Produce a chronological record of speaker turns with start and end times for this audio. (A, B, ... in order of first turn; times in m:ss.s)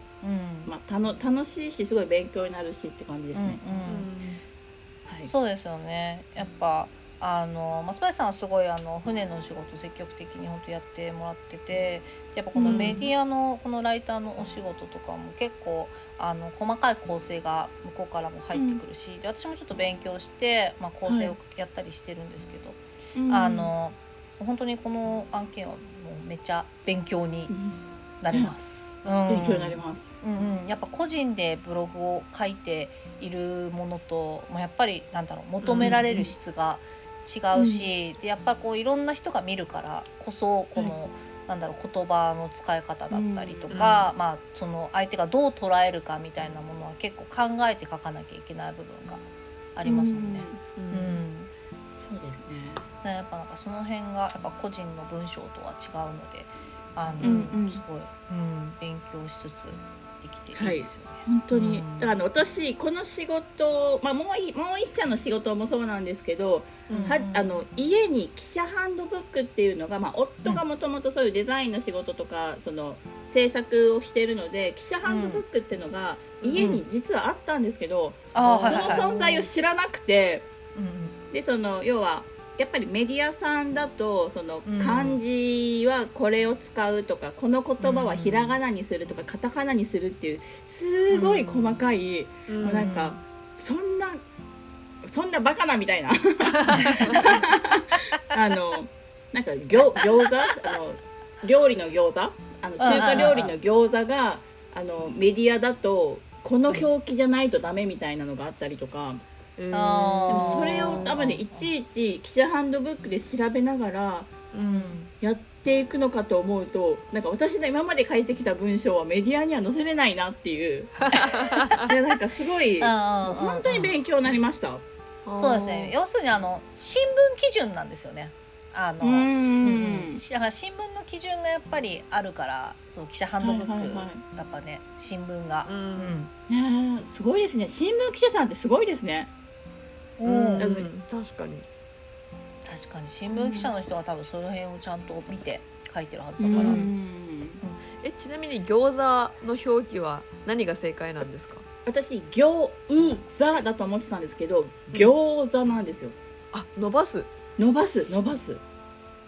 0:00.2-0:00.7 A
0:00.6-0:03.6 B
0:03.3-0:04.1 A
0:03.8-0:04.4 C
0:05.2-0:27.5 A
0:12.5-0:13.1 B
0:12.6-0:13.0 C
0:18.5-0:18.8 B
0:21.0-0:21.4 B
0:23.1-0:23.7 B
0:27.5-0:28.5 B
0:28.2-0:49.2 A
0:29.3-0:30.2 B
0:35.6-0:36.0 C
0:35.8-0:36.3 B
0:37.5-0:37.9 B
0:43.1-0:43.8 B
0:43.7-0:44.1 C
0:49.8-0:51.5 A
0:49.8-0:50.6 B
0:50.8-0:51.2 C
0:52.0-0:52.8 B
0:53.0-1:02.1 A
0:57.2-0:57.8 B
1:00.5-1:20.5 B
1:06.9-1:07.2 C
1:06.9-1:07.6 A
1:15.0-1:15.4 A
1:16.4-1:16.7 C
1:16.6-1:16.8 A
1:18.3-1:19.5 A
1:18.4-1:19.1 C
1:20.7-1:21.1 A
1:21.3-1:34.2 B
1:24.6-1:25.2 A
1:27.8-1:28.6 A
1:31.1-1:31.8 A
1:32.5-1:32.9 C
1:32.6-1:33.2 A
1:35.0-1:49.2 B
1:36.6-1:37.2 C
1:36.8-1:37.3 A
1:42.8-1:43.6 A
1:49.6-1:51.2 C
1:49.7-1:51.7 A
1:50.3-1:54.4 B
1:54.5-1:55.0 C
1:54.6-1:55.1 A
1:55.2-2:01.2 B
2:01.1-2:01.8 C
2:01.7-2:04.8 B
2:02.8-2:04.0 A
2:05.2-2:05.9 C
2:05.4-2:16.3 A
2:09.0-2:10.2 B
2:13.4-2:14.2 B
2:15.6-2:16.2 C
2:16.5-2:19.3 B
2:20.2-2:20.7 A
2:20.2-2:21.6 C
2:20.6-2:20.9 B
2:22.6-2:26.9 A
2:23.3-2:23.7 B
2:26.4-2:27.6 B
2:26.5-2:26.9 C
2:28.0-2:31.6 C
2:31.8-2:36.2 B
2:36.5-2:37.3 C
2:37.6-2:38.6 B